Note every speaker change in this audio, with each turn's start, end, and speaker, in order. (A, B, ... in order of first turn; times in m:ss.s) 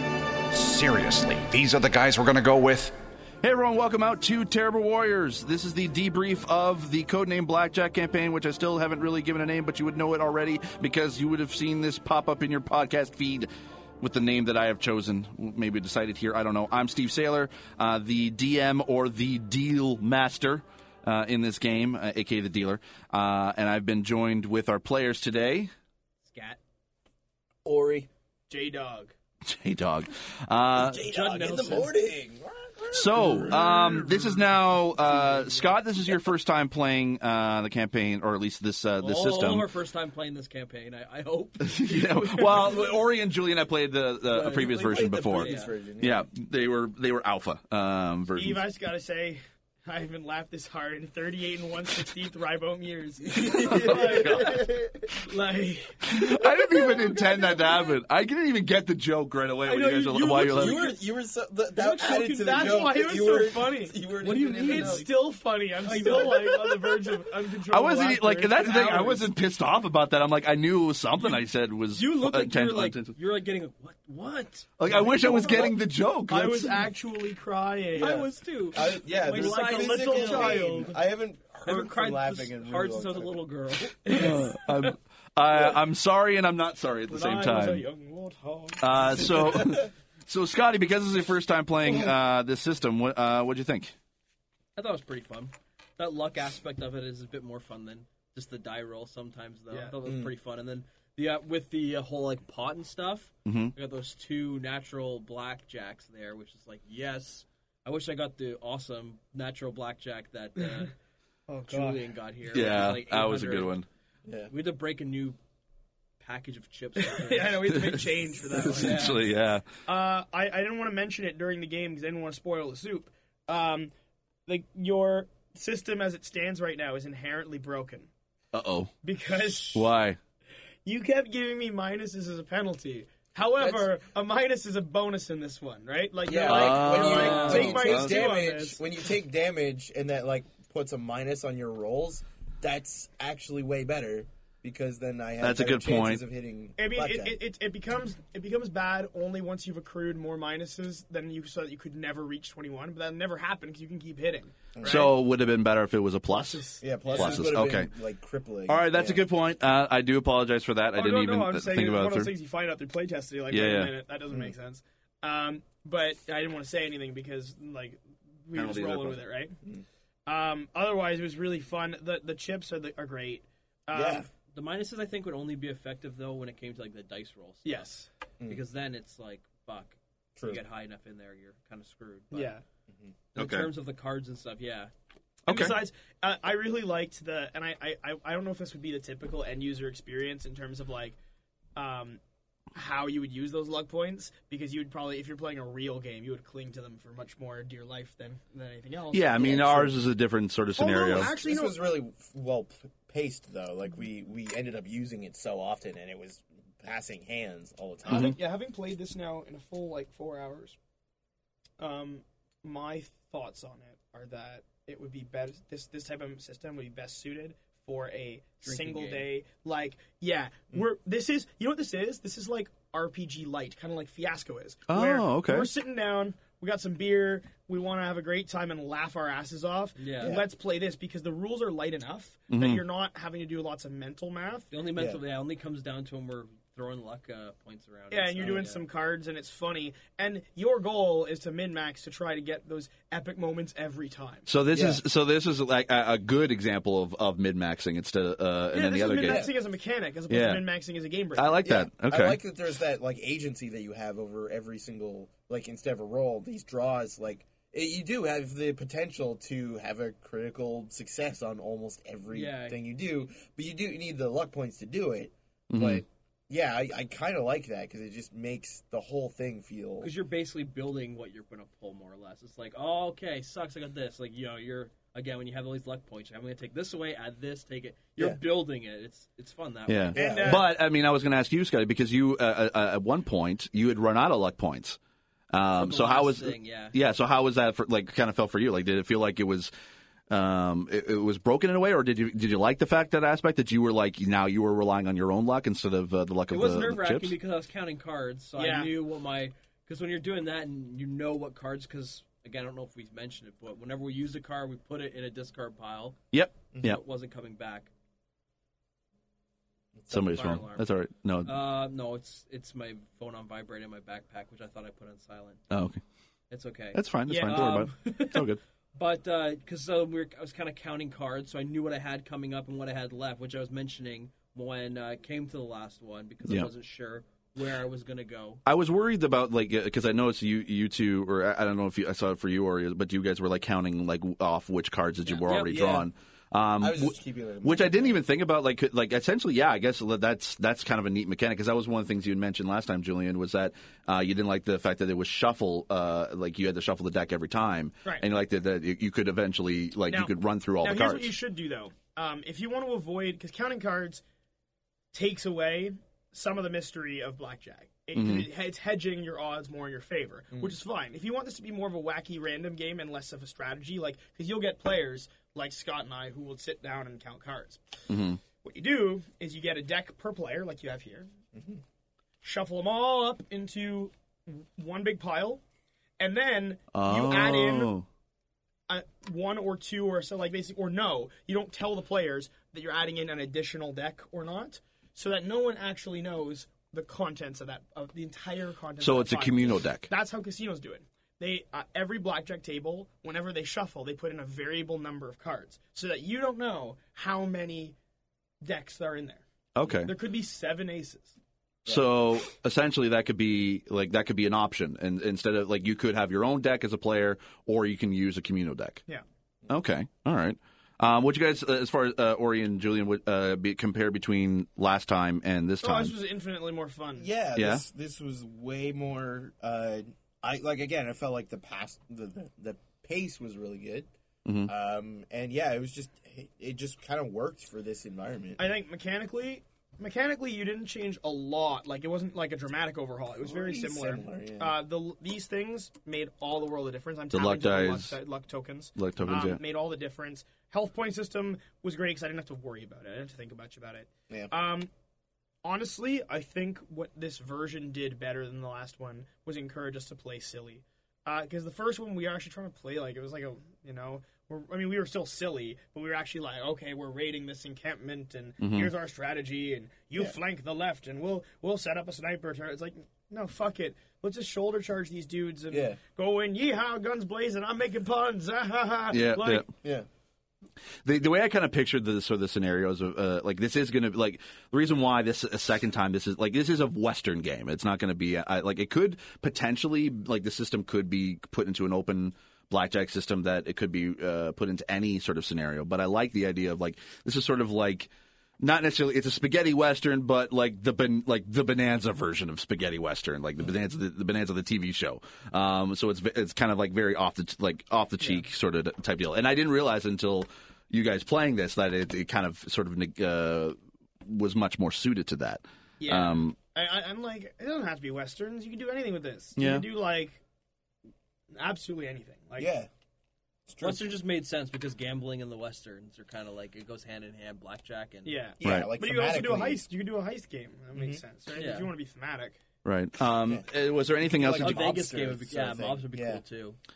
0:00.5-0:02.9 A
0:03.4-0:13.5 B
0:14.0-0:25.7 B
0:26.2-0:26.6 C
0:27.6-0:28.1 D
0:28.5-0:29.1 E
0:29.4-0:31.0 B
0:30.7-0:35.6 D
0:31.0-0:32.0 C
0:32.9-0:39.7 B
0:39.0-0:43.0 C
0:41.6-0:48.6 B
0:44.2-0:45.8 C
0:44.5-0:46.3 D
0:48.4-0:56.2 E
0:53.2-0:55.0 D
0:53.5-0:54.7 B
0:56.1-1:00.8 B
0:57.2-0:57.4 E
0:59.6-1:01.0 E
1:00.3-1:05.1 D
1:01.8-1:09.3 E
1:04.2-1:05.1 C
1:05.8-1:06.6 C
1:06.0-1:07.0 D
1:07.7-1:13.2 B
1:11.9-1:15.7 C
1:14.8-1:16.8 B
1:14.9-1:15.7 E
1:16.3-1:18.3 E
1:18.0-1:21.0 C
1:18.0-1:23.4 D
1:18.8-1:21.0 E
1:21.6-1:24.6 C
1:24.0-1:24.9 E
1:24.1-1:27.8 B
1:27.1-1:29.7 E
1:28.8-1:33.9 B
1:34.8-1:50.9 C
1:40.0-1:40.3 D
1:43.5-1:43.7 B
1:50.6-1:50.9 E
1:51.5-1:52.1 E
1:51.7-1:53.8 C
1:52.5-1:53.9 B
1:54.2-1:54.5 D
1:54.5-1:55.4 C
1:56.2-1:58.0 C
1:57.0-1:59.2 E
1:58.6-1:59.3 C
1:58.6-1:59.7 B
1:59.8-2:03.9 E
2:04.5-2:08.1 E
2:08.5-2:08.9 B
2:09.0-2:09.9 E
2:09.7-2:10.2 B
2:10.8-2:18.8 E
2:13.6-2:13.9 D
2:16.2-2:27.4 D
2:16.4-2:18.3 B
2:16.9-2:17.8 C
2:25.4-2:26.2 B
2:26.8-2:35.1 E
2:34.8-2:35.1 D
2:34.8-2:36.6 B
2:36.3-2:37.6 E
2:36.8-2:39.2 D
2:37.1-2:37.9 B
2:38.7-2:42.3 B
2:41.0-2:49.6 E
2:43.5-2:43.9 B
2:48.6-2:49.2 B
2:50.3-2:54.3 E
2:53.9-2:54.3 D
2:54.5-2:57.9 C
2:57.6-2:58.1 E
2:58.4-3:02.6 C
3:00.4-3:00.6 D
3:02.3-3:02.6 E
3:02.9-3:03.1 D
3:03.3-3:04.9 C
3:03.4-3:03.7 B
3:05.5-3:05.8 B
3:05.5-3:11.2 E
3:11.8-3:12.2 E
3:12.7-3:19.9 E
3:19.1-3:21.3 B
3:19.4-3:19.9 D
3:20.8-3:21.8 E
3:21.2-3:28.4 D
3:28.0-3:30.8 E
3:28.1-3:28.4 B
3:31.8-3:54.7 E
3:38.6-3:39.3 C
3:44.9-3:45.7 B
3:50.0-3:50.4 C
3:52.5-3:52.8 B
3:54.7-3:58.8 C
3:55.0-3:55.2 D
3:58.1-4:04.5 E
4:04.5-4:09.5 B
4:04.7-4:05.0 D
4:08.7-4:11.7 E
4:09.2-4:09.5 D
4:10.3-4:10.7 B
4:11.4-4:12.4 B
4:11.6-4:30.1 D
4:22.3-4:22.8 C
4:25.7-4:26.0 B
4:30.0-4:40.2 C
4:39.9-4:45.0 B
4:40.1-4:40.6 D
4:40.2-4:40.7 E
4:45.5-4:49.7 B
4:45.8-4:47.0 C
4:50.3-4:57.4 B
4:56.5-5:06.2 C
4:58.6-4:58.9 E
5:06.3-5:07.0 B
5:06.8-5:07.9 C
5:10.0-5:10.5 D
5:10.1-5:11.5 B
5:10.1-5:10.9 C
5:11.4-5:15.6 C
5:15.7-5:16.0 B
5:16.5-5:28.6 C
5:16.9-5:18.6 B
5:17.3-5:17.9 E
5:28.6-5:51.3 B
5:35.2-5:36.1 C
5:36.8-5:38.2 D
5:50.1-5:54.2 E
5:55.1-6:11.3 E
5:58.2-5:58.5 B
6:08.1-6:08.4 B
6:11.5-6:11.8 D
6:12.4-6:15.6 E
6:16.2-6:17.9 E
6:16.9-6:18.1 B
6:18.9-6:38.0 E
6:29.0-6:30.1 B
6:38.6-6:39.4 E
6:39.8-6:40.1 B
6:40.0-6:41.4 E
6:41.9-6:49.0 B
6:49.7-6:56.1 B
6:55.8-6:57.3 E
6:57.2-7:04.1 D
6:57.6-6:57.8 B
7:04.4-7:04.7 B
7:04.6-7:08.7 D
7:08.6-7:24.9 E
7:13.4-7:14.8 D
7:17.3-7:18.2 B
7:19.0-7:19.6 B
7:25.6-7:49.7 E
7:38.6-7:38.9 B
7:45.7-7:46.0 D
7:49.1-7:49.7 B
7:51.0-8:26.6 B
8:26.0-8:30.4 E
8:29.6-8:29.9 B
8:31.5-8:32.7 E
8:32.6-8:32.9 D
8:33.7-8:34.1 D
8:33.8-8:38.4 C
8:38.2-8:42.6 E
8:38.6-8:39.9 D
8:38.6-8:38.9 B
8:41.0-8:41.2 D
8:41.6-8:41.9 C
8:42.8-8:44.9 B
8:43.3-8:43.7 D
8:44.2-8:46.4 D
8:44.5-8:46.8 C